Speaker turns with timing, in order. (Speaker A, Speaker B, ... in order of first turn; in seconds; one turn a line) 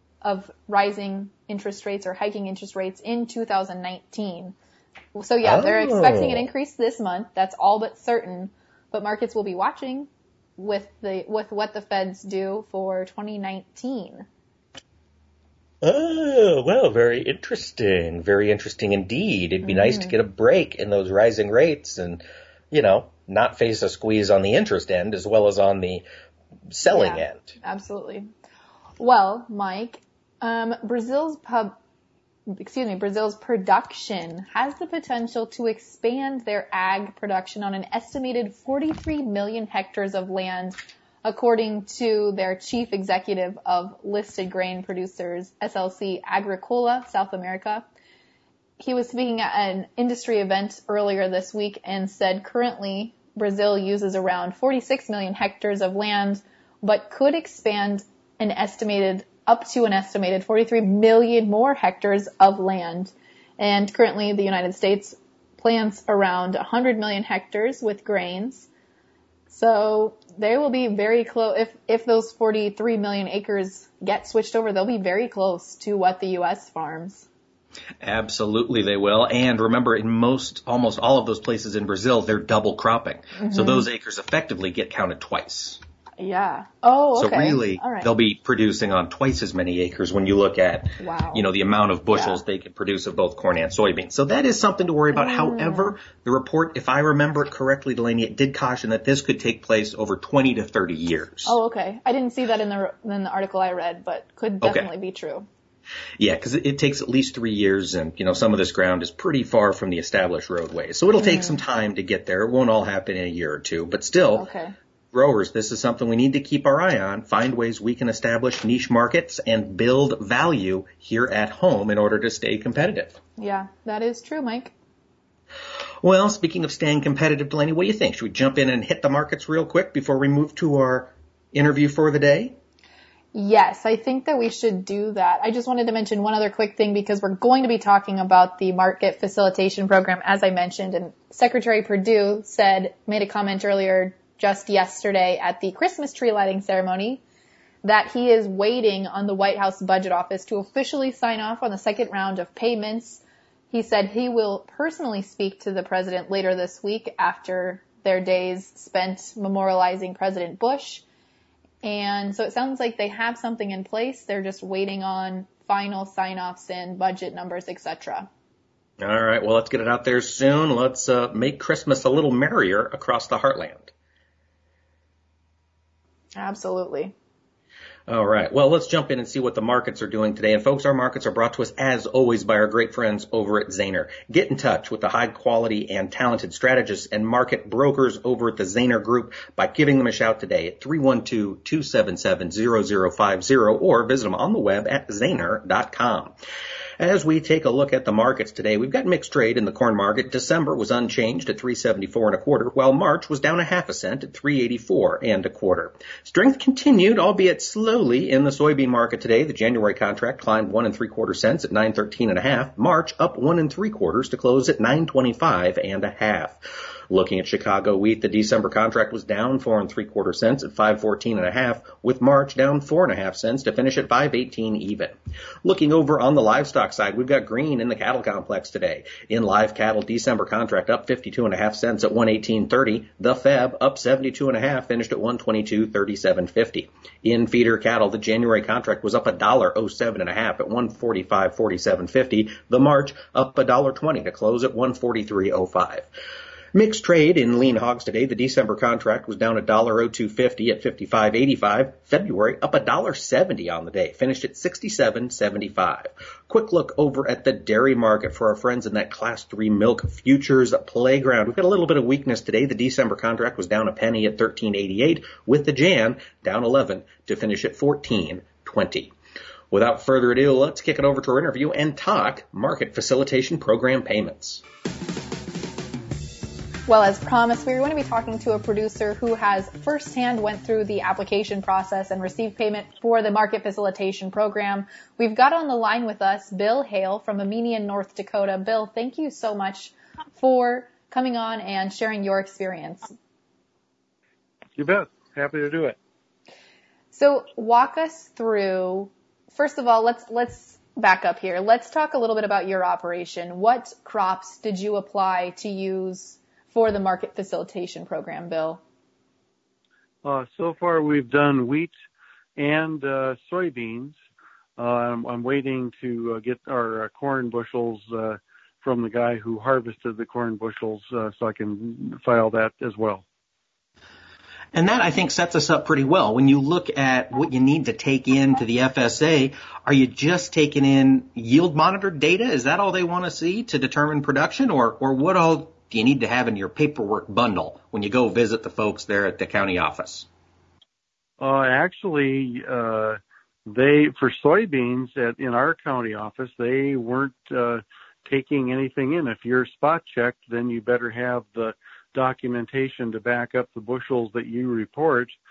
Speaker A: 0.2-4.5
Speaker A: 5.1-14.2
Speaker B: 5.4-6.5
Speaker B: 15.8-26.0
Speaker A: 19.6-20.1
Speaker B: 26.7-27.5
Speaker A: 26.9-28.3
Speaker A: 29.0-31.8
Speaker A: 32.5-47.9
Speaker A: 48.8-68.7
Speaker A: 69.5-77.2
Speaker B: 78.0-85.8
Speaker A: 83.3-83.8
Speaker A: 86.2-88.1
Speaker B: 87.2-101.6
Speaker A: 91.0-91.4
Speaker A: 92.1-92.4
Speaker A: 95.1-96.0
Speaker A: 101.4-105.5
Speaker B: 104.6-104.9
Speaker B: 106.2-114.5
Speaker A: 111.2-111.6
Speaker A: 114.3-114.7
Speaker B: 115.1-123.2
Speaker A: 123.4-124.7
Speaker B: 126.0-132.6
Speaker A: 133.3-147.2
Speaker A: 147.8-161.0
Speaker A: 161.8-168.3
Speaker B: 169.0-173.9
Speaker A: 176.3-177.1
Speaker B: 178.1-196.3
Speaker B: 197.0-246.1
Speaker B: 246.7-269.1
Speaker B: 269.7-274.6
Speaker A: 276.9-293.1
Speaker C: 294.8-296.0
Speaker A: 297.1-308.8
Speaker C: 310.2-311.9
Speaker C: 312.6-314.1
Speaker C: 314.8-323.2
Speaker B: 324.7-340.3
Speaker C: 341.4-355.4